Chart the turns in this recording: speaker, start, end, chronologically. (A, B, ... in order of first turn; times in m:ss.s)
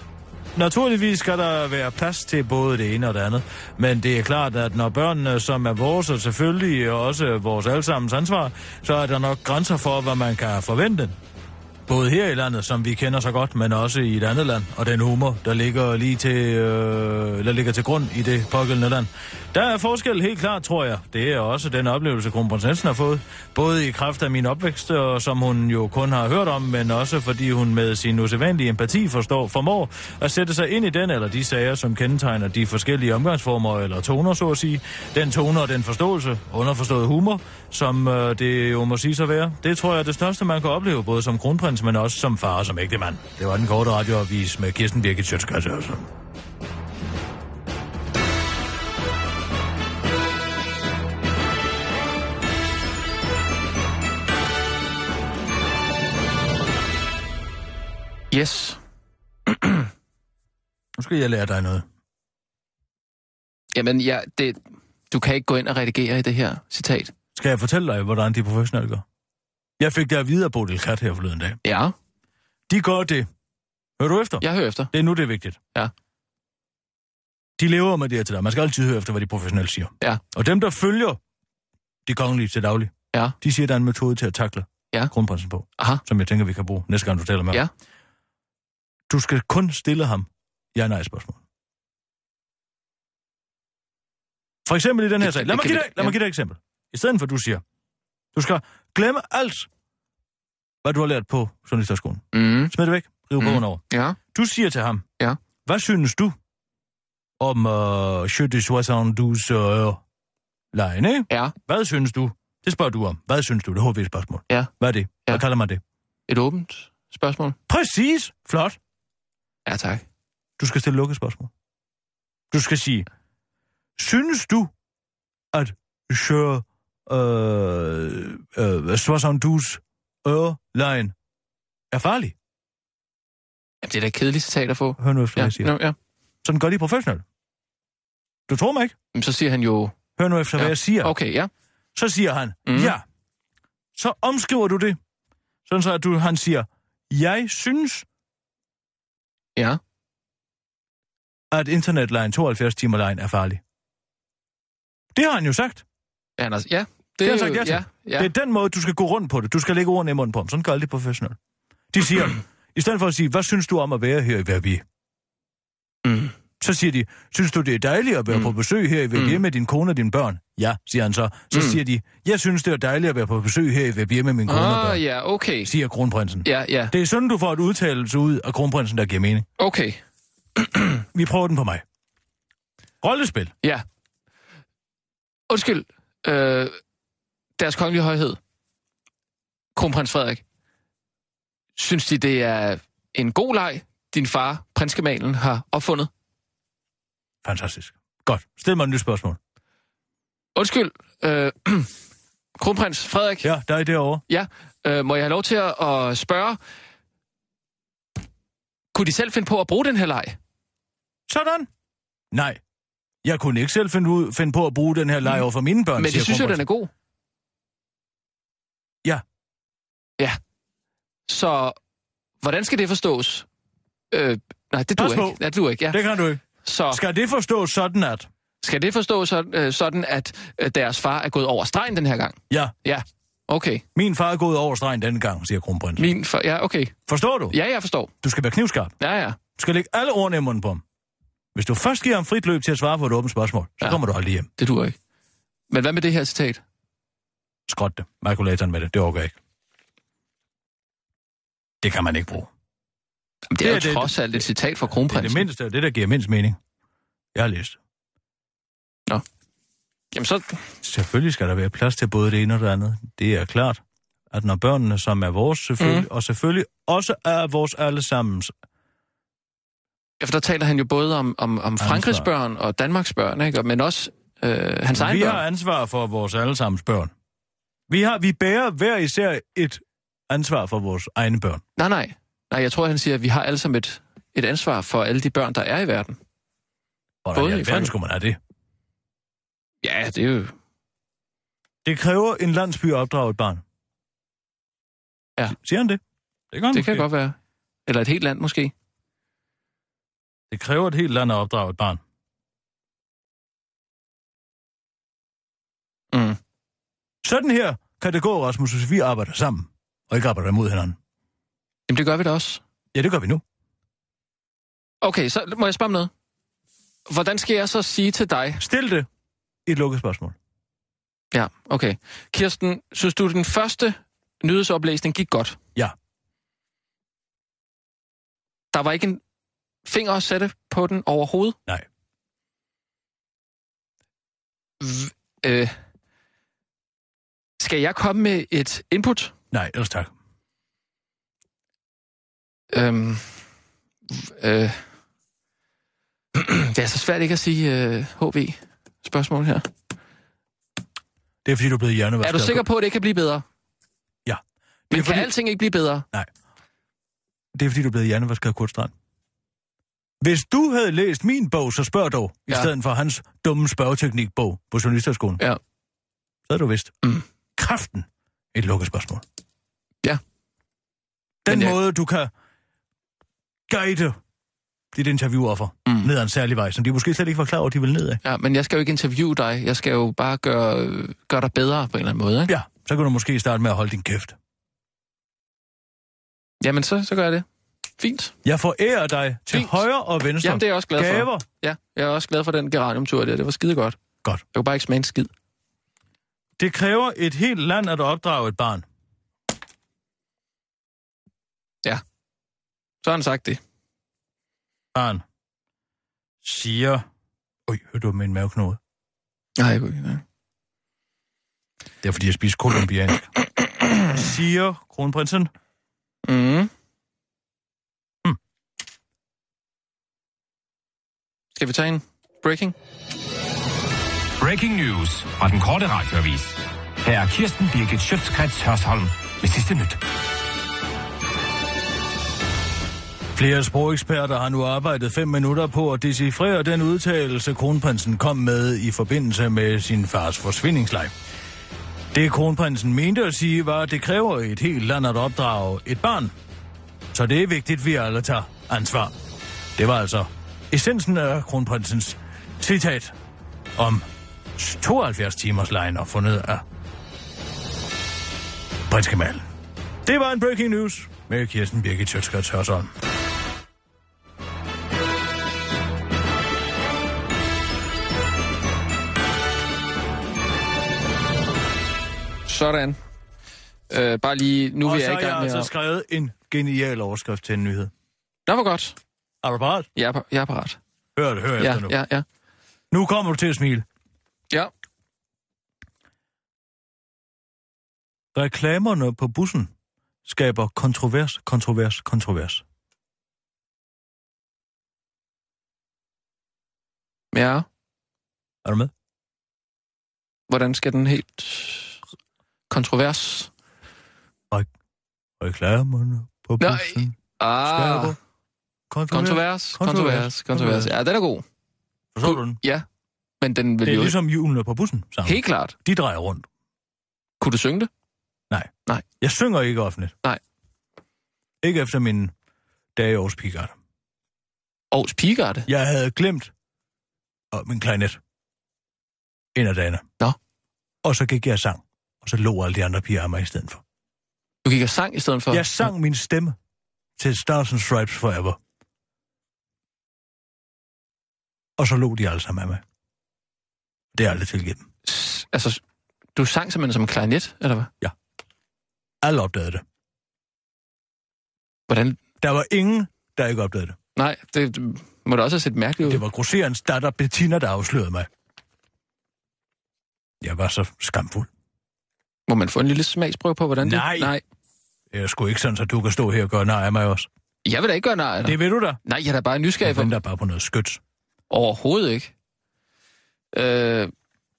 0:00.5-0:11.2 A
0:11.9-0:46.1 A
0:58.3-0:58.8 B
0:59.5-0:59.9 B
1:01.0-1:01.8 A
1:03.7-1:07.1 B
1:07.3-1:09.0 A
1:09.8-1:11.6 A
1:11.6-1:11.9 B
1:12.7-1:13.3 A
1:14.0-1:15.6 A
1:14.4-1:14.9 B
1:17.6-1:21.2 A
1:22.0-1:27.6 A
1:25.8-1:26.0 B
1:29.1-1:31.4 A
1:34.6-1:37.6 A
1:35.2-1:36.2 B
1:38.3-1:39.7 A
1:40.8-1:45.0 A
1:42.3-1:42.7 B
1:43.4-1:44.2 B
1:45.6-1:46.4 A
1:47.4-1:50.0 A
1:50.7-1:55.8 A
1:51.3-1:51.5 B
1:56.3-1:57.6 B
1:57.7-1:58.8 A
1:59.6-2:00.0 B
2:00.6-2:01.5 A
2:02.5-2:03.1 A
2:04.0-2:04.7 A
2:05.5-2:11.1 A
2:11.9-2:12.3 A
2:13.8-2:16.0 B
2:15.0-2:15.8 A
2:16.4-2:17.2 A
2:18.5-2:18.9 A
2:19.1-2:20.0 B
2:20.2-2:21.1 A
2:20.6-2:21.5 B
2:21.9-2:23.0 A
2:22.6-2:22.9 B
2:23.9-2:25.0 A
2:25.7-2:28.0 A
2:31.5-2:33.6 A
2:35.1-2:35.8 A
2:36.4-2:38.3 B
2:37.2-2:41.4 A
2:41.9-2:44.8 A
2:46.0-2:46.3 B
2:46.6-2:55.0 A
2:49.1-2:49.4 B
2:51.5-2:51.8 B
2:54.5-2:55.7 B
2:55.6-2:59.4 A
2:56.4-2:56.9 B
2:59.6-3:00.0 B
3:00.6-3:01.0 B
3:01.1-3:01.8 A
3:03.0-3:03.5 A
3:05.5-3:06.8 B
3:07.6-3:08.4 B
3:09.7-3:10.4 B
3:11.8-3:16.1 B
3:17.4-3:19.4 A
3:20.5-3:21.9 B
3:22.6-3:23.5 B
3:23.4-3:24.2 A
3:24.3-3:26.6 B
3:28.9-3:30.4 B
3:31.3-3:31.7 A
3:32.3-3:32.6 A
3:33.2-3:36.6 A
3:36.0-3:36.9 B
3:41.3-3:41.8 B
3:42.4-3:43.5 B
3:44.1-3:46.0 B
3:45.0-3:48.3 A
3:46.6-3:47.0 B
3:48.6-3:53.8 B
3:53.9-3:56.1 A
3:56.0-3:56.9 B
3:57.1-3:57.6 A
3:57.5-3:58.1 B
3:58.2-3:58.9 A
3:59.0-3:59.4 B
3:59.6-4:00.8 A
4:01.5-4:04.5 A
4:04.6-4:05.0 B
4:05.7-4:06.6 B
4:07.7-4:09.4 A
4:11.8-4:12.5 A
4:13.5-4:15.5 B
4:13.6-4:16.6 A
4:17.3-4:17.8 A
4:20.1-4:20.6 B
4:20.8-4:28.5 A
4:25.8-4:26.1 B
4:30.2-4:35.4 B
4:31.8-4:32.3 A
4:34.9-4:37.1 A
4:37.9-4:41.6 A
4:41.8-4:46.2 B
4:47.2-4:48.4 A
4:47.3-4:47.9 B
4:49.8-4:50.5 B
4:51.8-4:53.6 A
4:55.5-4:57.0 A
4:56.7-4:58.7 B
5:00.5-5:02.0 A
5:06.1-5:06.4 B
5:07.2-5:11.0 A
5:11.9-5:12.6 B
5:12.9-5:13.4 A
5:15.0-5:16.1 B
5:17.1-5:18.6 B
5:18.6-5:19.1 A
5:19.6-5:20.4 A
5:21.3-5:25.6 B
5:28.7-5:29.2 B
5:29.8-5:31.6 B
5:34.8-5:35.7 B
5:37.6-5:39.3 B
5:39.5-5:40.1 A
5:42.7-5:43.4 B
5:44.1-5:44.8 B
5:46.3-5:49.7 B
5:51.4-5:52.6 A
5:52.2-5:53.4 B
5:54.2-5:55.3 A
5:54.9-5:56.1 B
5:57.5-5:58.9 A
6:00.2-6:05.4 A
6:06.5-6:06.9 A
6:07.6-6:09.2 A
6:11.4-6:12.3 A
6:11.5-6:11.8 B
6:13.7-6:14.2 A
6:14.9-6:18.2 A
6:18.2-6:22.5 B
6:22.5-6:24.4 A
6:26.6-6:27.4 B
6:28.0-6:28.3 B
6:28.4-6:31.4 A
6:29.5-6:29.8 B
6:30.4-6:34.0 B
6:34.5-6:35.3 B
6:36.6-6:38.8 A
6:43.0-6:43.6 B
6:44.9-6:45.2 A
6:46.4-6:47.0 A
6:47.7-6:48.8 A
6:49.6-6:50.2 B
6:52.0-6:53.3 A
6:54.1-6:55.5 A
6:56.2-6:56.7 B
7:01.6-7:02.7 B
7:04.4-7:10.0 C
7:13.3-7:21.1 A
7:22.1-7:26.3 A
7:27.1-7:29.1 A
7:29.8-7:33.1 A
7:33.8-7:36.6 A
7:38.9-7:39.4 A
7:40.0-7:42.9 A
7:52.5-7:53.0 B
7:53.9-7:55.7 B
7:54.8-7:57.9 A
7:58.5-7:59.0 B
7:59.4-7:59.9 A
8:00.0-8:00.8 B
8:01.2-8:01.9 A
8:01.6-8:02.2 B
8:02.9-8:03.8 A
8:08.3-8:09.7 A
8:10.2-8:12.6 A
8:17.3-8:17.6 B
8:18.6-8:18.9 A
8:20.5-8:22.0 B
8:22.7-8:23.5 B
8:25.4-8:28.2 A
8:26.6-8:28.2 B
8:28.9-8:30.9 A
8:29.1-8:31.4 B
8:32.1-8:32.6 A
8:32.2-8:32.8 B
8:33.4-8:34.2 B
8:33.8-8:36.5 A
8:35.2-8:35.7 B
8:37.4-8:37.9 B
8:39.2-8:40.1 A
8:41.6-8:42.3 A
8:43.0-8:43.7 A
8:44.9-8:45.7 B
8:45.7-8:46.5 A
8:47.5-8:48.2 A
8:49.5-8:50.1 A
8:51.0-8:53.8 A
8:54.6-8:55.9 B
8:55.5-8:56.6 A
8:57.2-8:58.6 A
9:01.8-9:02.8 A
9:04.1-9:04.9 A
9:05.0-9:05.8 B
9:06.3-9:07.9 B
9:09.2-9:09.8 A
9:11.9-9:12.2 B
9:12.4-9:14.0 A
9:14.2-9:16.2 B
9:16.0-9:18.3 A
9:20.4-9:21.5 A
9:22.5-9:24.4 B
9:23.8-9:24.4 A
9:25.1-9:27.3 A
9:27.6-9:30.1 B
9:28.4-9:29.0 A
9:29.8-9:31.0 A
9:31.5-9:32.3 B
9:33.5-9:34.1 B